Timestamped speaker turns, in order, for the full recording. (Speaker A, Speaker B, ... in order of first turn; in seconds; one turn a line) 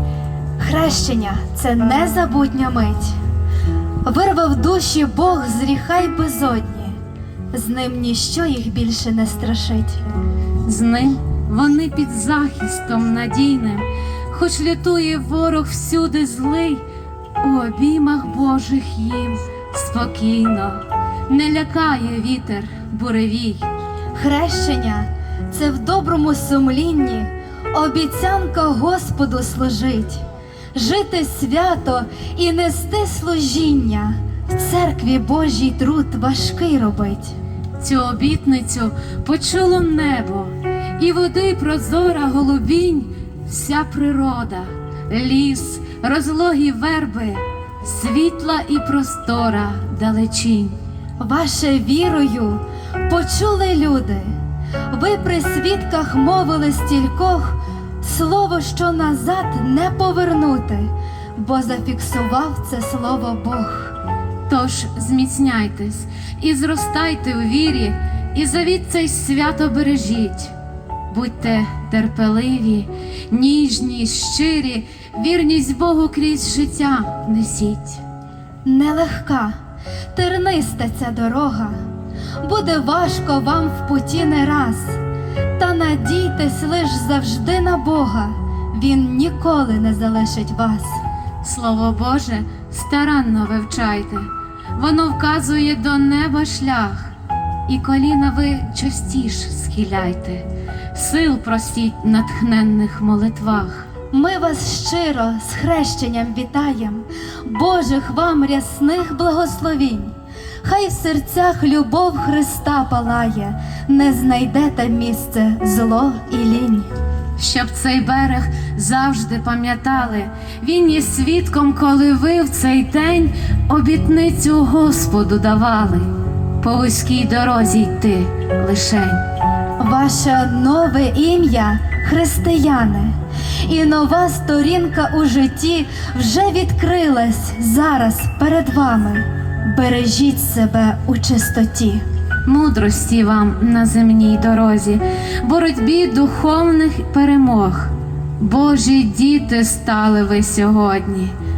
Speaker A: 0.6-3.2
Speaker A: 4.0-7.0
Speaker A: 7.5-10.0
Speaker B: 10.7-16.8
Speaker B: 17.4-23.7
Speaker A: 24.1-30.2
Speaker A: 30.7-37.4
Speaker B: 37.8-50.8
Speaker A: 51.2-54.3
Speaker A: 54.9-63.9
Speaker B: 64.5-70.5
Speaker B: 71.1-78.0
Speaker A: 78.7-79.5
Speaker A: 80.1-81.8
Speaker A: 82.4-85.0
Speaker A: 85.6-91.0
Speaker B: 91.4-97.1
Speaker B: 97.7-103.9
Speaker A: 104.1-110.1
Speaker A: 110.6-116.9
Speaker B: 117.4-126.1
Speaker B: 126.6-129.2
Speaker A: 129.8-142.0
Speaker B: 142.4-151.3